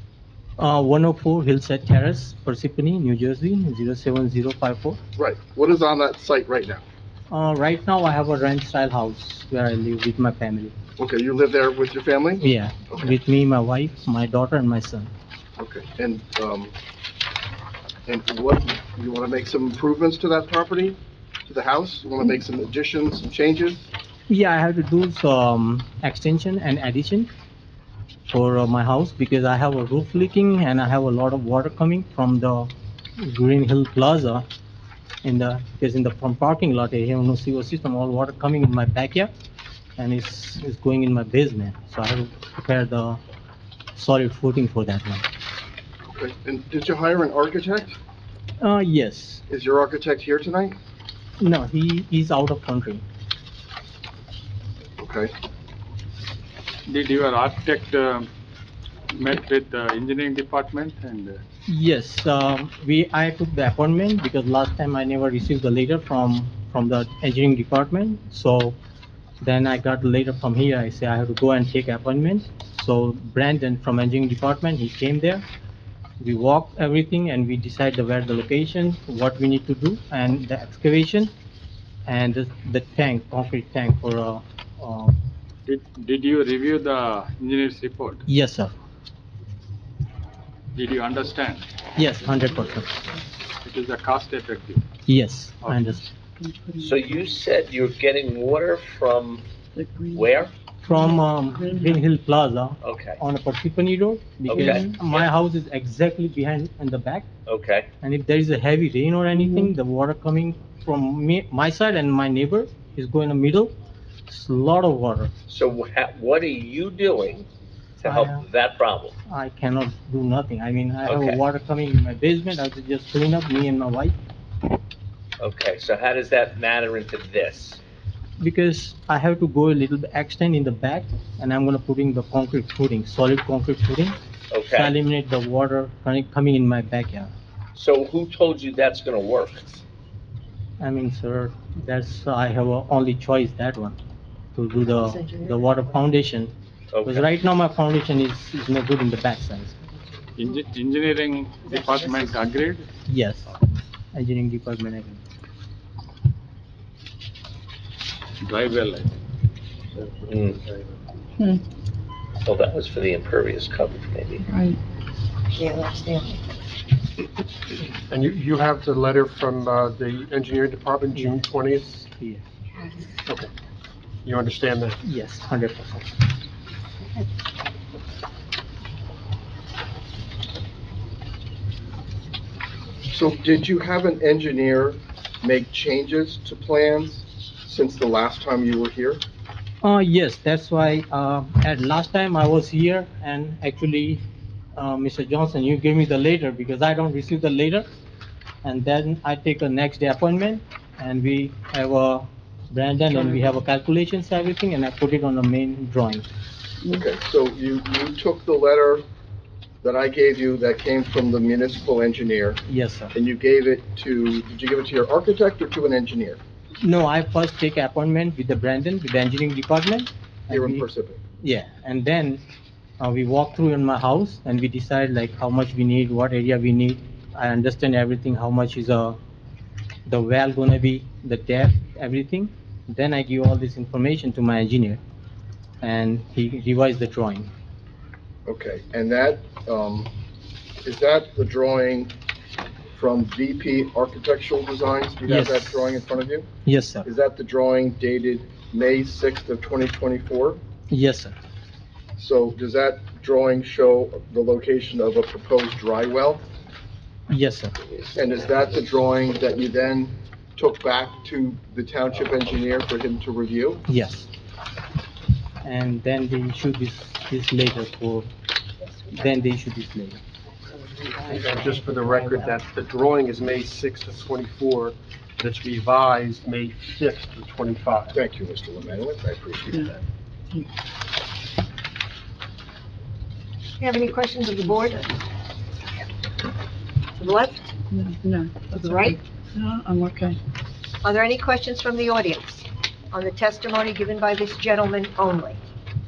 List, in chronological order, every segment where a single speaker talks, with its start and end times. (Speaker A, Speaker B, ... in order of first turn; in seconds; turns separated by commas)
Speaker A: 0.6-5.0, Speaker B: 5.2-6.8, Speaker A: 7.3-10.7, Speaker B: 11.0-12.4, Speaker A: 12.4-15.1, Speaker B: 15.6-16.7, Speaker B: 18.1-23.8, Speaker A: 24.3-27.3, Speaker A: 28.3-34.5, Speaker A: 35.2-39.3, Speaker A: 40.0-43.2, Speaker A: 44.0-45.2, Speaker B: 46.1-48.0, Speaker A: 48.6-49.4, Speaker B: 49.5-50.8, Speaker A: 51.4-53.0, Speaker B: 55.0-55.3, Speaker C: 56.9-58.3, Speaker C: 59.1-61.4, Speaker A: 61.7-68.8, Speaker A: 69.4-75.4, Speaker A: 76.2-81.3, Speaker A: 82.1-85.2, Speaker C: 85.7-88.2, Speaker A: 88.3-88.7, Speaker C: 90.7-91.7, Speaker A: 92.0-92.9, Speaker C: 93.6-94.8, Speaker A: 95.1-96.1, Speaker D: 96.4-97.2, Speaker E: 96.8-99.5, Speaker D: 99.8-102.0, Speaker E: 100.1-100.5, Speaker A: 100.8-107.3, Speaker E: 102.8-103.2, Speaker E: 104.5-105.3, Speaker E: 107.5-107.9, Speaker A: 108.0-113.7, Speaker D: 109.4-109.7, Speaker A: 114.3-115.3, Speaker E: 115.5-117.5, Speaker E: 118.0-119.2, Speaker A: 118.0-118.5, Speaker A: 119.3-124.2, Speaker E: 121.0-121.4, Speaker E: 125.4-127.8, Speaker A: 128.4-134.2, Speaker E: 134.5-134.9, Speaker A: 134.7-137.3, Speaker E: 137.7-139.8, Speaker A: 140.8-144.0, Speaker A: 144.6-146.5, Speaker E: 146.9-147.3, Speaker A: 147.1-149.8, Speaker C: 150.4-152.9, Speaker A: 153.1-153.5, Speaker A: 154.1-155.2, Speaker C: 158.4-159.1, Speaker F: 159.9-160.8, Speaker E: 162.4-164.4, Speaker D: 164.4-164.8, Speaker G: 165.5-166.4, Speaker F: 168.1-171.9, Speaker A: 171.1-172.4, Speaker G: 172.8-173.0, Speaker F: 174.2-175.0, Speaker A: 175.0-176.1, Speaker B: 183.1-189.2, Speaker A: 189.8-194.2, Speaker A: 194.8-197.9, Speaker A: 198.6-206.3, Speaker D: 206.8-207.1, Speaker B: 206.9-209.1, Speaker B: 209.8-212.6, Speaker A: 212.7-213.1, Speaker B: 213.2-216.4, Speaker A: 216.8-220.9, Speaker B: 220.5-221.2, Speaker A: 221.4-222.4, Speaker A: 223.0-229.2, Speaker A: 230.1-235.0, Speaker A: 235.8-237.5, Speaker B: 238.5-240.1, Speaker B: 240.8-242.1, Speaker B: 242.9-246.5, Speaker A: 245.3-246.0, Speaker A: 246.7-247.1, Speaker B: 247.1-250.6, Speaker A: 250.9-251.3, Speaker B: 252.2-256.4, Speaker A: 257.3-257.8, Speaker B: 258.1-263.8, Speaker A: 263.9-264.3, Speaker A: 265.6-268.3, Speaker A: 269.1-270.2, Speaker F: 271.1-278.2, Speaker B: 278.1-280.0, Speaker G: 283.8-285.2, Speaker G: 287.2-287.7, Speaker D: 287.9-290.4, Speaker G: 288.8-289.2, Speaker G: 291.0-295.6